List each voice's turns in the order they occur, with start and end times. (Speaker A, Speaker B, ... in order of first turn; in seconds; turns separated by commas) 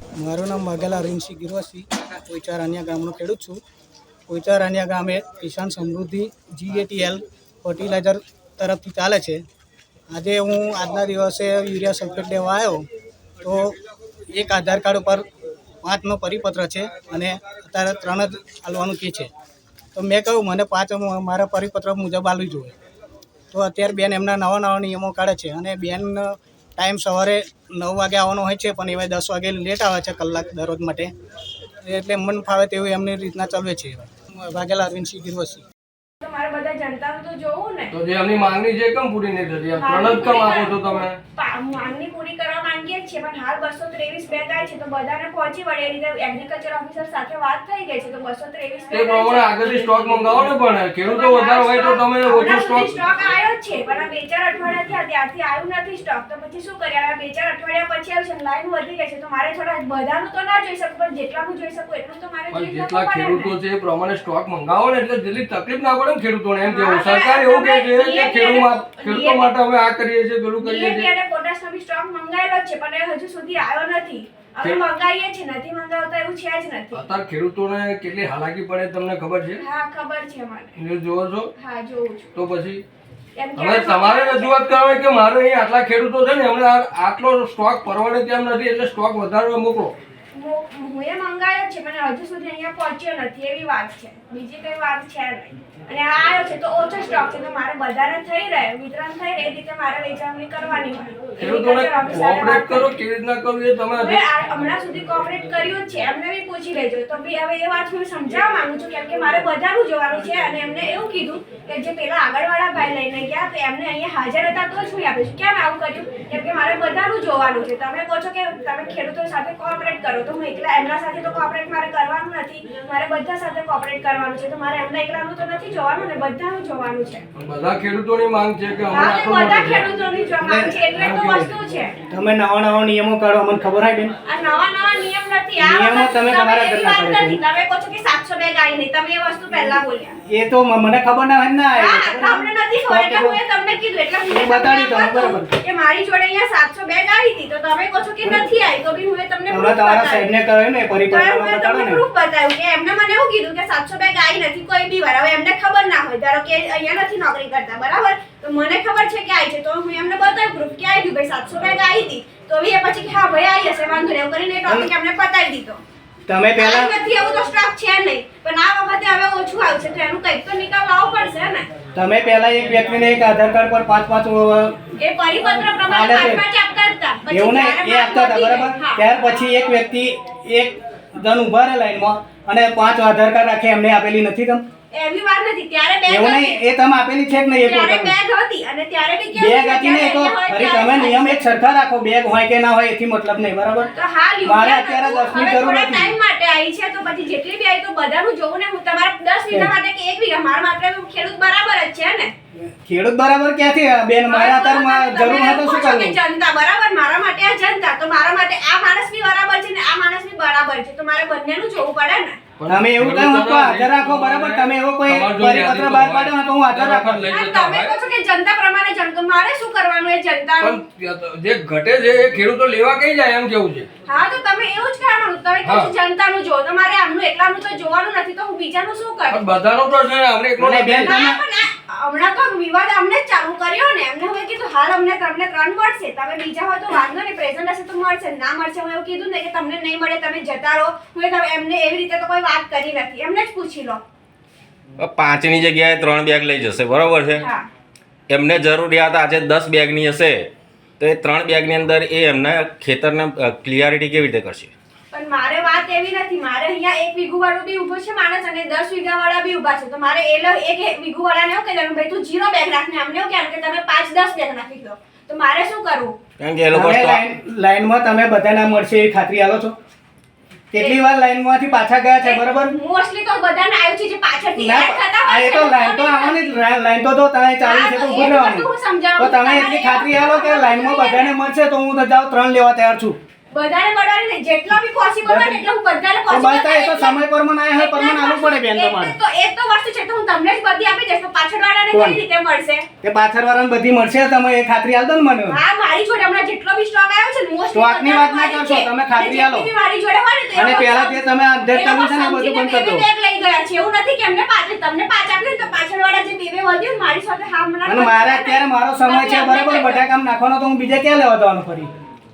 Speaker A: 0.2-3.6, Speaker A: 4.3-9.4, Speaker A: 10.1-12.8, Speaker A: 13.4-13.7, Speaker A: 14.3-15.2, Speaker A: 15.8-19.3, Speaker A: 19.9-22.8, Speaker A: 23.5-31.1, Speaker A: 31.8-35.6, Speaker B: 36.2-37.9, Speaker C: 37.9-41.2, Speaker B: 39.7-40.8, Speaker B: 41.3-50.0, Speaker C: 48.9-53.0, Speaker B: 51.0-63.5, Speaker C: 62.5-71.1, Speaker B: 66.6-69.5, Speaker B: 70.6-77.0, Speaker C: 74.6-74.9, Speaker C: 76.9-79.6, Speaker B: 79.6-80.7, Speaker C: 80.8-81.5, Speaker B: 81.6-82.3, Speaker C: 82.3-82.8, Speaker B: 83.4-84.6, Speaker C: 83.5-90.0, Speaker B: 90.3-103.0, Speaker C: 101.4-104.2, Speaker B: 104.0-127.2, Speaker C: 127.4-129.9, Speaker B: 128.9-131.9, Speaker A: 130.4-130.7, Speaker C: 130.9-131.6, Speaker A: 132.1-134.1, Speaker B: 134.2-140.2, Speaker A: 135.6-137.4, Speaker A: 140.3-143.4, Speaker B: 141.7-150.3, Speaker A: 144.3-145.5, Speaker A: 148.2-148.5, Speaker A: 149.5-152.0, Speaker B: 151.1-165.8, Speaker A: 166.3-166.9, Speaker B: 166.6-171.7, Speaker A: 171.9-174.8, Speaker B: 175.0-179.1, Speaker A: 175.4-176.4, Speaker A: 177.3-184.6, Speaker B: 184.9-186.6, Speaker A: 186.1-188.1, Speaker B: 187.6-191.4, Speaker A: 189.4-193.9, Speaker B: 193.9-202.3, Speaker A: 194.4-196.1, Speaker A: 202.8-206.2, Speaker B: 204.3-212.5, Speaker C: 212.6-218.0, Speaker A: 212.7-217.3, Speaker B: 217.3-220.8, Speaker C: 220.6-223.9, Speaker B: 224.1-229.4, Speaker C: 225.6-225.9, Speaker C: 229.3-231.2, Speaker A: 230.6-231.4, Speaker B: 231.1-244.0, Speaker D: 245.0-247.4, Speaker B: 247.4-247.7, Speaker D: 248.3-254.7, Speaker B: 255.1-266.2, Speaker D: 266.4-267.2, Speaker A: 266.7-269.8, Speaker A: 270.7-272.7, Speaker B: 272.2-276.6, Speaker A: 274.6-283.2, Speaker B: 277.6-281.4, Speaker B: 283.5-287.2, Speaker A: 285.2-285.6, Speaker A: 286.3-289.2, Speaker B: 287.8-292.9, Speaker A: 291.9-292.2, Speaker A: 293.0-295.6, Speaker B: 295.5-310.0, Speaker A: 297.7-299.7, Speaker A: 300.6-303.1, Speaker A: 307.9-311.9